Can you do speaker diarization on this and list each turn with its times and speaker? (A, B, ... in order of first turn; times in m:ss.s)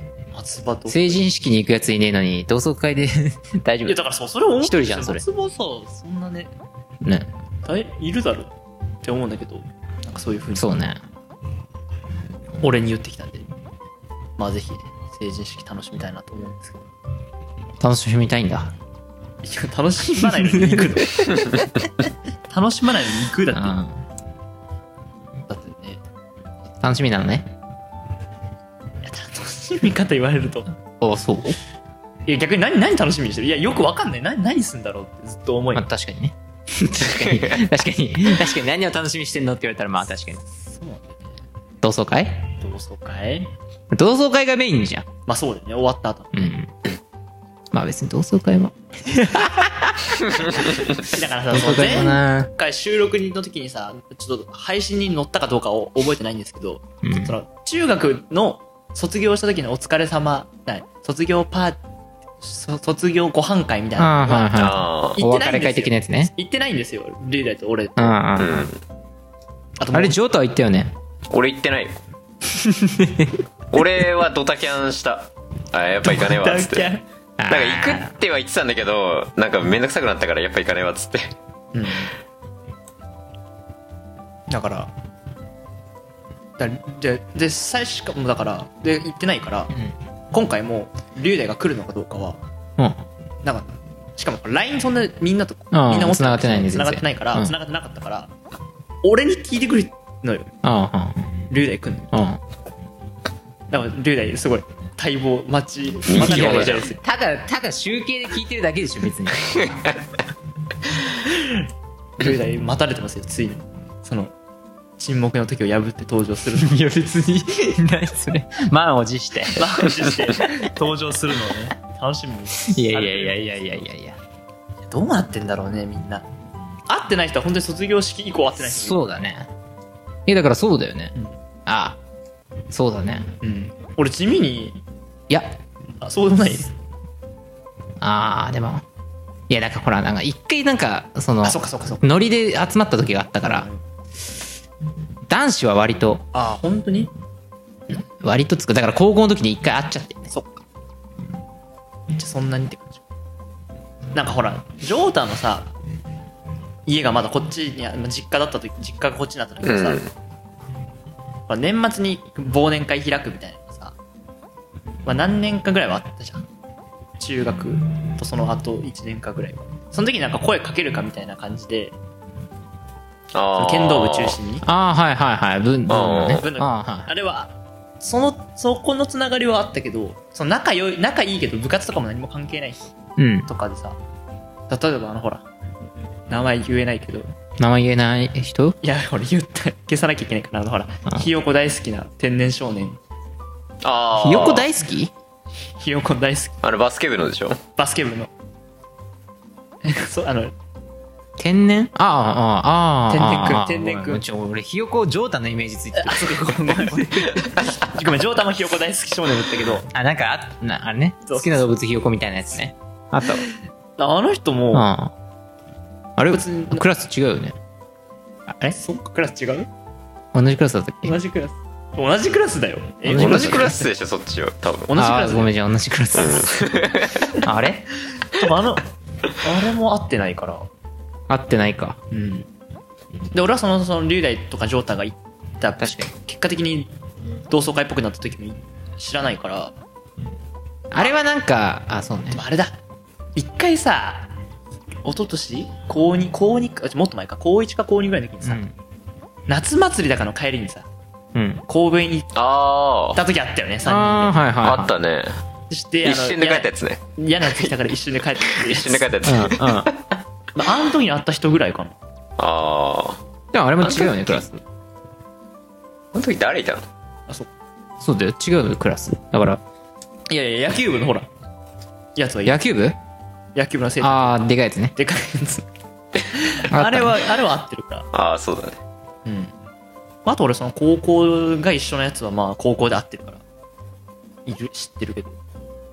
0:00.3-0:01.2 A
0:00.9-0:04.0 B
0:03.8-0:06.5 A
0:04.6-0:05.2 B
0:07.0-0:07.3 B
0:07.6-0:08.5 A
0:09.0-0:10.8 A
0:10.6-0:11.0 B
0:12.6-0:13.4 A
0:14.4-0:16.9 A
0:17.8-0:18.7 B
0:19.4-0:21.4 A
0:20.2-0:21.0 B
0:22.5-0:23.8 A
0:23.5-0:24.0 B
0:25.5-0:26.0 A
0:26.8-0:27.5 B
0:29.0-0:30.7 A
0:31.0-0:31.6 B
0:32.3-0:35.8 A
0:35.7-0:40.4 B
0:37.1-0:37.5 C
0:40.7-0:41.4 A
0:41.8-0:42.5 B
0:42.6-0:43.5 A
0:43.9-0:45.1 B
0:45.3-0:46.6 A
0:46.3-0:46.7 B
0:47.7-0:50.8 B
0:51.0-1:01.8 A
0:51.5-0:52.5 B
0:57.0-0:57.3 B
1:02.4-1:08.2 A
1:04.0-1:06.3 B
1:04.5-1:05.2 C
1:08.0-1:08.7 B
1:08.4-1:08.8 C
1:09.8-1:10.2 A
1:09.9-1:10.9 B
1:11.3-1:12.0 C
1:12.6-1:13.4 B
1:13.7-1:16.9 C
1:16.0-1:17.0 A
1:17.4-1:18.1 B
1:17.5-1:21.3 C
1:21.7-1:22.1 A
1:24.5-1:24.9 A
1:26.6-1:29.7 A
1:30.3-1:32.4 A
1:32.8-1:33.0 B
1:33.4-1:38.3 A
1:35.7-1:37.5 B
1:39.0-1:40.5 A
1:40.6-1:41.3 B
1:41.5-1:42.2 A
1:42.1-1:42.4 B
1:43.7-1:47.0 A
1:46.1-1:46.8 C
1:46.2-1:50.0 B
1:51.0-1:51.7 A
1:52.2-1:54.3 A
1:55.0-1:56.8 A
1:56.6-2:00.5 B
1:59.6-2:03.4 A
2:02.6-2:04.2 B
2:04.9-2:06.2 A
2:06.9-2:09.1 A
2:08.6-2:09.5 B
2:10.3-2:11.1 B
2:11.6-2:12.0 B
2:12.7-2:13.3 B
2:13.4-2:14.8 A
2:15.3-2:15.6 B
2:16.0-2:16.7 A
2:18.0-2:18.8 B
2:19.5-2:23.7 B
2:21.4-2:22.1 A
2:23.4-2:23.8 A
2:25.3-2:26.2 B
2:26.3-2:27.1 A
2:28.2-2:30.3 B
2:30.3-2:30.6 A
2:32.1-2:33.0 A
2:34.1-2:35.7 A
2:36.8-2:40.0 A
2:39.6-2:40.1 C
2:41.5-2:43.9 A
2:45.0-2:46.4 A
2:47.2-2:51.9 A
2:53.3-2:54.4 C
2:53.5-2:54.6 A
2:54.6-2:57.1 B
2:55.9-2:56.4 C
2:56.4-3:02.9 A
3:03.2-3:03.5 B
3:03.4-3:04.0 A
3:04.7-3:05.4 A
3:06.3-3:07.3 A
3:07.6-3:08.8 B
3:08.8-3:13.0 A
3:13.8-3:14.7 C
3:14.2-3:15.1 B
3:15.8-3:16.6 A
3:16.6-3:17.6 C
3:17.8-3:18.3 A
3:19.8-3:20.5 A
3:21.4-3:27.6 B
3:23.1-3:24.2 A
3:26.0-3:29.9 A
3:29.9-3:33.5 B
3:31.2-3:31.6 A
3:34.0-3:34.9 A
3:34.7-3:35.1 B
3:36.2-3:37.6 B
3:36.3-3:36.8 A
3:38.5-3:38.8 B
3:38.7-3:39.7 A
3:40.3-3:41.1 B
3:41.0-3:43.9 A
3:43.1-3:43.7 B
3:43.1-3:44.9 C
3:44.9-3:45.5 A
3:45.0-3:46.6 B
3:46.1-3:47.3 C
3:47.4-3:47.9 B
3:48.2-3:50.7 A
3:51.3-3:52.0 B
3:52.1-3:52.5 A
3:53.3-3:56.9 A
3:55.8-3:56.1 B
3:57.5-3:59.8 A
4:00.9-4:02.4 B
4:02.3-4:02.8 A
4:03.4-4:04.3 A
4:05.0-4:08.6 A
4:08.4-4:08.7 B
4:09.5-4:10.8 A
4:11.3-4:11.6 B
4:11.7-4:12.3 A
4:12.3-4:13.2 C
4:13.1-4:14.4 A
4:13.8-4:14.9 B
4:14.6-4:15.4 C
4:15.7-4:19.1 A
4:16.0-4:17.7 C
4:18.4-4:20.0 C
4:19.2-4:19.9 B
4:20.6-4:22.0 A
4:22.4-4:23.2 C
4:23.5-4:24.6 B
4:23.8-4:24.3 C
4:26.1-4:26.9 C
4:28.0-4:29.6 B
4:30.3-4:31.3 A
4:32.2-4:32.6 A
4:32.4-4:33.0 B
4:33.5-4:34.4 A
4:34.0-4:34.9 B
4:35.0-4:35.7 A
4:36.2-4:38.1 A
4:36.7-4:37.2 B
4:38.1-4:38.8 C
4:39.2-4:39.5 A
4:40.2-4:43.4 A
4:44.4-4:45.4 A